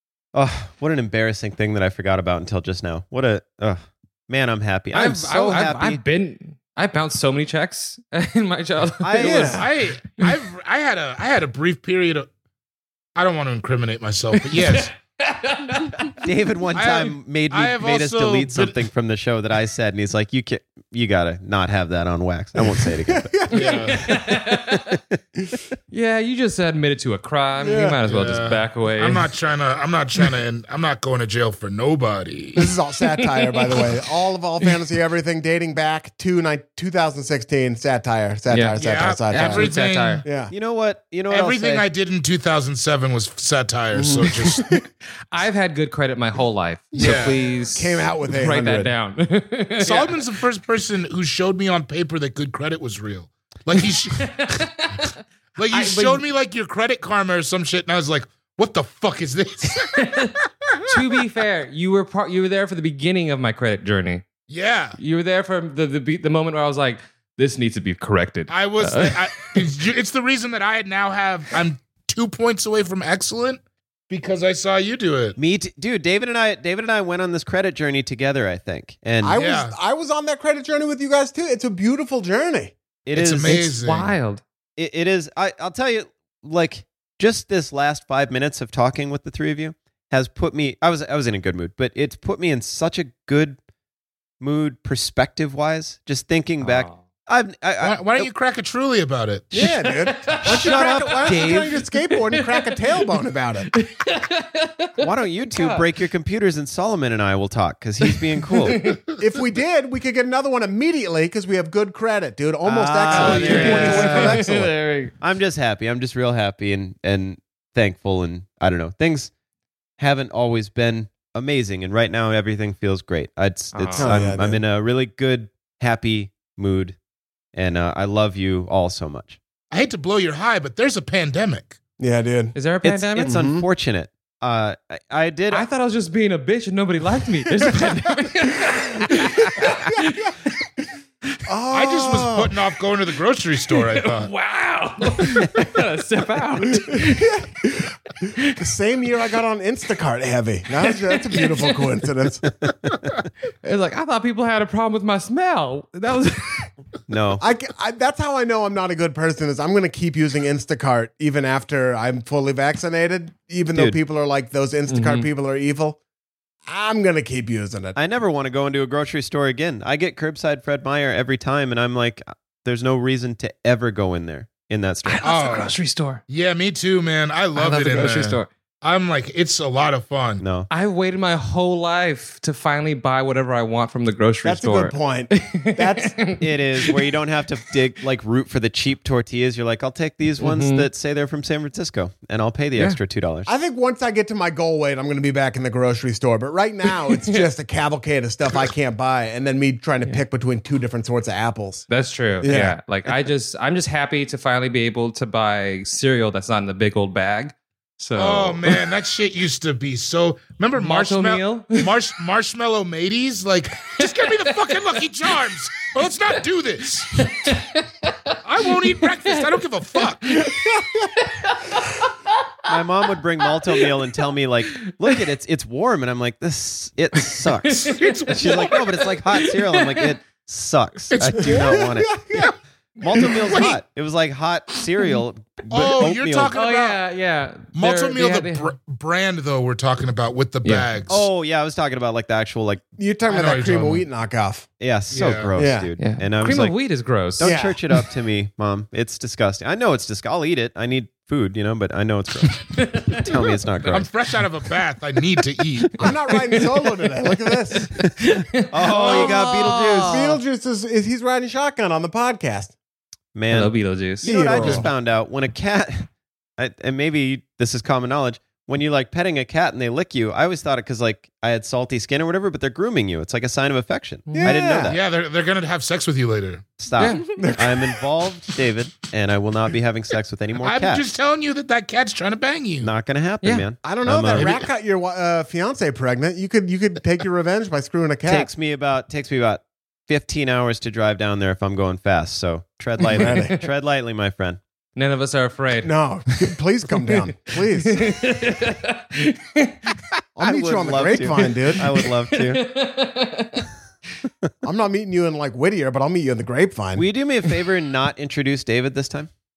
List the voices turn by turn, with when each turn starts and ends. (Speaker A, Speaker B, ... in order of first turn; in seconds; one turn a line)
Speaker A: 0.3-6.0
Speaker B: 4.9-9.7
Speaker A: 9.0-9.6
Speaker C: 9.2-9.6
Speaker D: 9.6-12.3
Speaker D: 13.2-14.9
Speaker B: 14.5-16.2
Speaker A: 16.2-23.5
Speaker D: 16.8-18.8
Speaker C: 22.6-24.3
Speaker D: 23.5-24.1
Speaker B: 23.6-25.0
Speaker B: 25.9-29.3
Speaker C: 27.6-28.0
Speaker D: 28.1-32.7
Speaker C: 32.6-39.7
Speaker B: 33.3-33.8
Speaker B: 38.5-38.8
Speaker D: 38.8-40.3
Speaker B: 39.3-40.2
Speaker C: 40.2-40.5
Speaker A: 40.5-41.9
Speaker D: 41.3-44.6
Speaker C: 43.9-44.8
Speaker B: 45.3-50.2
Speaker C: 46.9-48.9
Speaker D: 47.0-47.4
Speaker D: 49.8-54.6
Speaker B: 54.2-55.2
Speaker D: 55.6-60.1
Speaker B: 55.7-56.2
Speaker B: 59.9-60.3
Speaker B: 60.9-64.3
Speaker D: 64.5-65.0
Speaker B: 65.0-69.6
Speaker D: 68.5-75.4
Speaker A: 75.4-79.4
Speaker C: 79.2-82.7
Speaker D: 79.3-79.8
Speaker A: 83.1-83.7
Speaker D: 83.2-84.1
Speaker B: 83.5-84.4
Speaker A: 84.8-93.6
Speaker A: 94.4-98.3
Speaker B: 96.6-97.0
Speaker D: 97.8-99.5
Speaker C: 99.5-103.5
Speaker B: 99.6-102.8
Speaker A: 100.7-101.6
Speaker D: 103.3-103.7
Speaker B: 103.7-105.8
Speaker A: 105.0-108.8
Speaker B: 108.7-109.0
Speaker C: 109.2-114.8
Speaker A: 112.7-114.4
Speaker D: 113.1-114.4
Speaker B: 113.3-115.1
Speaker A: 115.2-119.3
Speaker A: 120.0-127.0
Speaker B: 123.7-124.2
Speaker C: 124.0-124.6
Speaker A: 127.5-129.4
Speaker D: 129.7-131.8
Speaker C: 132.0-132.6
Speaker B: 132.6-133.4
Speaker A: 132.8-135.7
Speaker C: 133.2-133.7
Speaker B: 135.5-140.3
Speaker C: 139.2-140.3
Speaker C: 141.5-142.6
Speaker D: 141.7-144.3
Speaker B: 143.9-147.3
Speaker C: 146.9-152.5
Speaker B: 150.9-151.8
Speaker B: 153.6-156.7
Speaker A: 157.1-157.4
Speaker C: 157.4-166.0
Speaker B: 164.9-165.3
Speaker C: 166.7-168.0
Speaker A: 167.9-175.3
Speaker B: 175.1-176.2
Speaker D: 175.2-175.7
Speaker D: 176.3-180.4
Speaker B: 177.6-178.5
Speaker A: 180.4-180.7
Speaker B: 180.7-187.0
Speaker C: 184.4-186.2
Speaker A: 186.4-193.5
Speaker B: 190.4-190.9
Speaker C: 193.5-201.9
Speaker B: 197.1-197.5
Speaker B: 201.9-208.8
Speaker C: 202.4-202.8
Speaker D: 208.2-217.2
Speaker B: 210.8-211.8
Speaker B: 214.0-215.0
Speaker B: 217.1-219.5
Speaker D: 218.4-220.4
Speaker B: 220.2-222.7
Speaker C: 220.5-221.0
Speaker A: 222.7-232.3
Speaker B: 223.4-223.9
Speaker B: 227.3-230.1
Speaker D: 227.8-228.7
Speaker D: 231.1-232.5
Speaker C: 231.5-232.5
Speaker A: 233.0-236.5
Speaker D: 233.2-233.8
Speaker D: 235.7-237.0
Speaker B: 236.5-238.7
Speaker D: 237.7-241.3
Speaker B: 240.6-240.9
Speaker A: 241.1-242.8
Speaker C: 243.0-244.7
Speaker D: 243.3-244.0
Speaker A: 244.8-246.8
Speaker D: 245.1-245.5
Speaker C: 245.6-245.9
Speaker B: 246.0-247.5
Speaker A: 247.4-254.1
Speaker C: 247.4-247.8
Speaker B: 252.5-253.3
Speaker D: 253.9-256.1
Speaker C: 256.0-257.9
Speaker B: 257.8-260.4
Speaker A: 258.7-260.3
Speaker D: 258.9-259.4
Speaker C: 259.0-259.3
Speaker C: 260.0-262.8
Speaker A: 263.4-275.0
Speaker B: 263.5-264.4
Speaker C: 264.2-264.9
Speaker D: 264.6-264.9
Speaker B: 274.3-274.6
Speaker C: 274.3-274.9
Speaker D: 274.9-276.6
Speaker A: 276.8-281.1
Speaker B: 277.0-277.5
Speaker C: 277.4-277.9
Speaker D: 280.6-282.9
Speaker A: 282.8-284.6
Speaker C: 283.8-288.5
Speaker D: 284.3-284.6
Speaker A: 288.3-294.6
Speaker B: 293.0-293.6
Speaker C: 293.1-293.5
Speaker B: 295.0-295.9
Speaker C: 295.8-298.3
Speaker B: 297.7-300.0
Speaker C: 300.4-301.9
Speaker A: 300.4-302.6
Speaker B: 301.9-303.7
Speaker C: 304.6-307.1
Speaker A: 306.9-309.3